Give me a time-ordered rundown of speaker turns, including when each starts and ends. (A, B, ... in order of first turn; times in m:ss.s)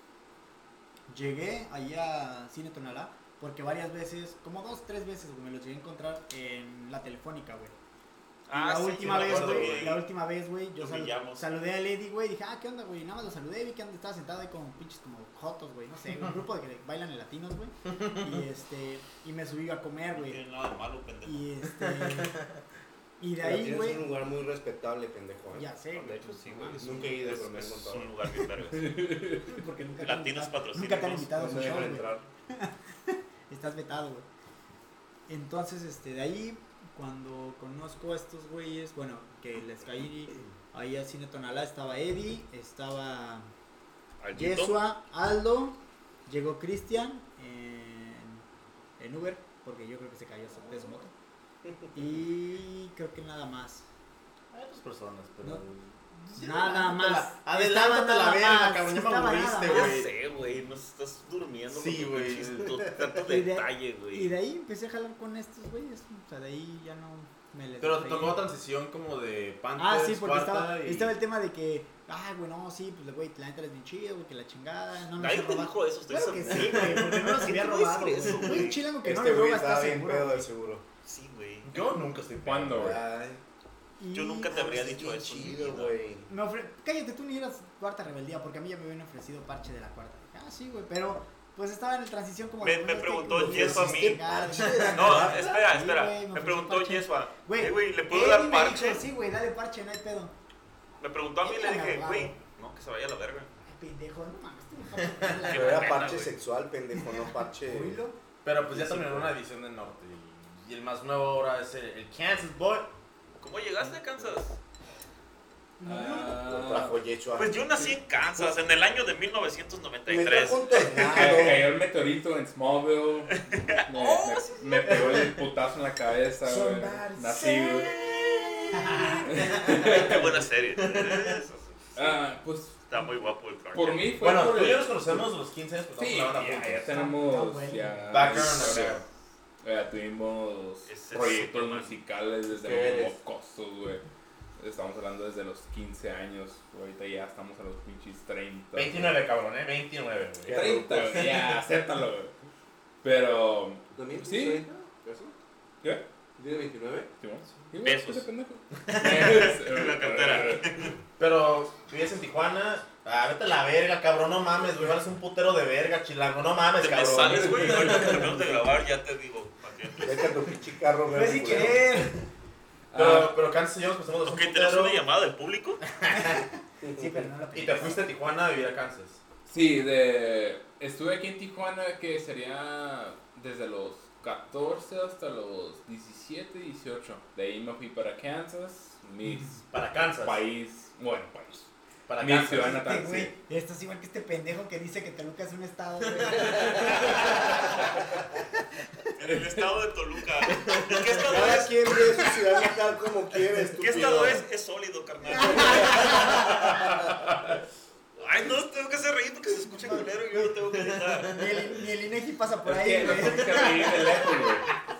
0:01.1-0:07.7 A
0:08.5-0:10.0 B
0:08.5-0:20.4 A
0:09.0-0:10.0 C
0:10.8-0:11.5 B
0:20.1-0:21.4 B
0:21.2-0:22.4 A
0:21.8-0:22.5 C
0:23.2-0:24.0 A
0:23.4-0:25.7 D
0:25.5-0:27.1 A
0:25.9-0:29.0 B
0:26.8-0:28.1 D
0:28.7-0:29.6 E
0:29.4-0:34.3 A
0:30.0-0:31.3 B
0:31.3-0:32.2 D
0:35.3-0:43.5 A
0:44.2-0:44.8 B
0:44.3-0:48.4 A
0:49.0-0:51.1 A
0:51.9-0:53.9 A
0:54.5-1:00.1 C
0:56.3-0:59.9 A
0:59.7-1:04.3 B
1:01.7-1:02.9 C
1:03.2-1:08.4 A
1:07.8-1:11.1 C
1:09.8-1:20.5 A
1:15.1-1:18.8 B
1:16.7-1:17.3 C
1:19.0-1:20.8 D
1:21.0-1:21.9 B
1:21.6-1:23.0 C
1:22.4-1:23.0 E
1:22.8-1:23.4 D
1:24.0-1:25.0 A
1:24.1-1:26.0 B
1:24.5-1:26.3 D
1:26.3-1:40.3 A
1:32.6-1:34.2 B
1:33.4-1:35.6 D
1:34.6-1:35.2 C
1:34.8-1:39.0 B
1:41.0-1:43.5 B
1:41.4-1:42.4 A
1:43.6-1:46.1 A
1:45.0-1:45.4 C
1:45.5-1:46.3 B
1:45.5-1:48.0 D
1:46.9-1:48.2 A
1:48.4-1:52.9 C
1:48.6-1:49.3 D
1:53.4-1:54.6 B
1:55.8-1:56.4 A
1:55.8-1:57.0 E
1:56.4-1:57.9 D
1:57.4-2:01.5 B
2:00.1-2:01.7 D
2:01.0-2:08.0 E
2:03.4-2:05.0 B
2:06.4-2:07.9 A
2:08.7-2:09.3 A
2:08.8-2:10.2 C
2:09.2-2:10.4 E
2:09.6-2:12.1 B
2:10.8-2:11.3 C
2:12.0-2:12.9 E
2:12.9-2:14.1 B
2:13.7-2:15.2 E
2:14.2-2:16.9 C
2:16.0-2:19.0 E
2:16.9-2:18.4 A
2:18.1-2:19.0 C
2:19.6-2:24.0 E
2:20.9-2:22.0 B
2:22.5-2:23.2 C
2:24.6-2:29.2 E
2:28.7-2:31.5 C
2:30.5-2:31.2 D
2:30.5-2:32.3 E
2:33.0-2:34.7 E
2:33.9-2:35.3 D
2:36.4-2:37.1 D
2:37.2-2:40.9 E
2:37.8-2:38.3 B
2:38.9-2:40.9 B
2:41.2-2:48.4 C
2:46.8-2:50.4 B
2:47.2-2:48.1 E
2:50.0-2:51.9 D
2:51.1-2:52.2 A
2:52.9-2:53.4 E
2:52.9-2:55.0 C
2:54.2-2:55.8 B
2:55.8-2:56.4 C
2:56.1-2:58.1 A
2:56.8-2:57.3 D
2:57.5-2:59.2 C
2:59.5-3:13.3 E
3:09.7-3:10.4 C
3:12.1-3:12.8 C
3:12.6-3:17.8 A
3:16.2-3:16.5 C
3:19.2-3:22.4 B
3:21.3-3:24.4 D
3:23.8-3:26.6 B
3:25.3-3:26.5 A
3:25.9-3:27.5 E
3:28.2-3:31.5 B
3:29.6-3:30.5 A
3:31.3-3:34.5 A
3:32.6-3:34.8 E